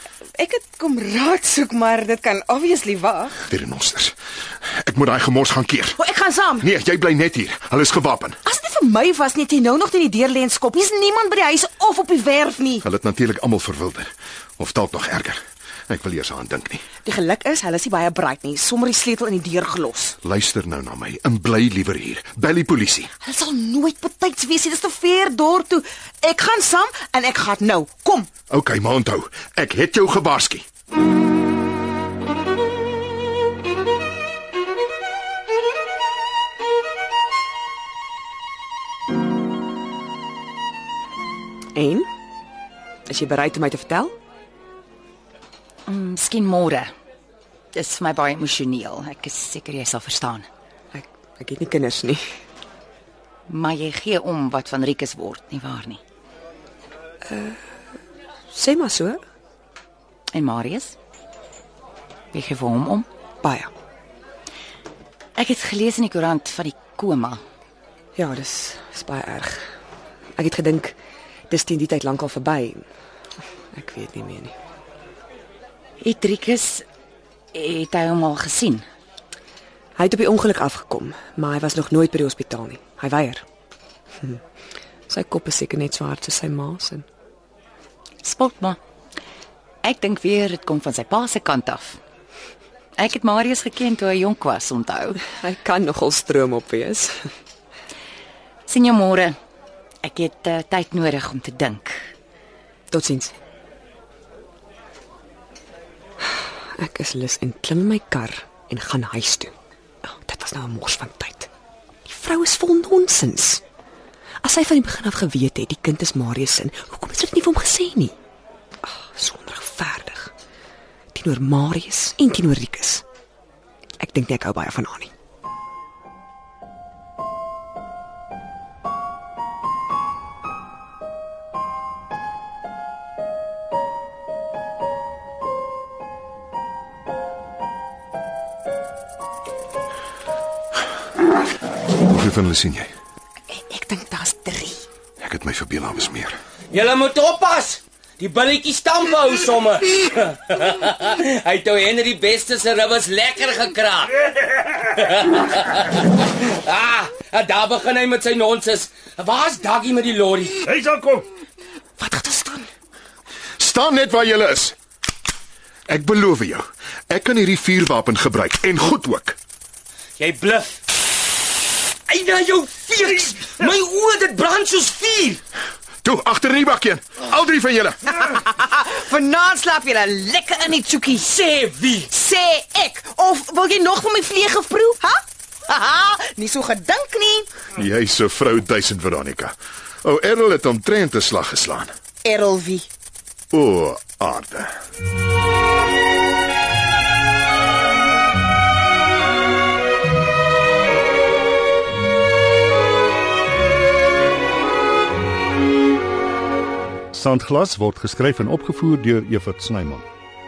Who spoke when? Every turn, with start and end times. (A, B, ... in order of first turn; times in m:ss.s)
0:00.4-0:03.3 A
0:03.4-0:06.0 B
0:06.0-0:06.6 A
0:06.6-0:08.4 B
0:08.4-0:12.8 A
0:12.8-0:16.8 B
0:17.0-0:20.2 A
0:20.2-0:23.1 B
0:23.2-0:28.3 A
0:28.5-0:30.6 B
0:41.7-0:42.1 C
0:43.1-0:44.2 C
0:45.9-0:46.9 D
0:47.7-0:50.5 D
0:50.9-0:52.2 C
0:53.5-0:56.0 D
0:57.3-0:57.6 C
0:58.5-0:59.2 C
1:00.3-1:01.0 D
1:02.3-1:03.0 D
1:03.4-1:03.7 C
1:05.4-1:07.4 D
1:08.2-1:09.6 C
1:10.4-1:11.0 C
1:11.5-1:12.8 C
1:13.7-1:14.6 C
1:16.0-1:16.8 D
1:17.5-1:18.8 D
1:20.0-1:23.4 C
1:25.1-1:27.1 C
1:28.2-1:28.8 D
1:29.8-1:32.0 D
1:33.0-1:35.2 D
1:35.2-1:37.1 C
1:38.7-1:39.4 D
1:40.0-1:42.0 D
1:42.9-1:43.3 C
1:46.3-1:49.5 C
1:50.0-1:51.5 C
1:52.0-1:53.6 C
1:54.4-1:58.2 C
1:58.8-2:00.3 C
2:01.1-2:03.0 C
2:04.0-2:05.1 C
2:22.0-2:22.9 B
2:23.5-2:24.8 C
2:25.2-2:26.4 B
2:26.7-2:40.7 E
2:42.0-2:42.6 C
2:43.6-2:44.8 B
2:45.9-2:49.4 B
2:50.2-2:50.8 E
2:52.1-2:55.4 E
2:56.0-2:58.2 B
2:58.3-3:01.2 A
3:01.1-3:02.1 E
3:02.1-3:07.5 A
3:07.8-3:11.9 B
3:12.2-3:12.9 A
3:13.5-3:14.7 B
3:27.1-3:30.1 F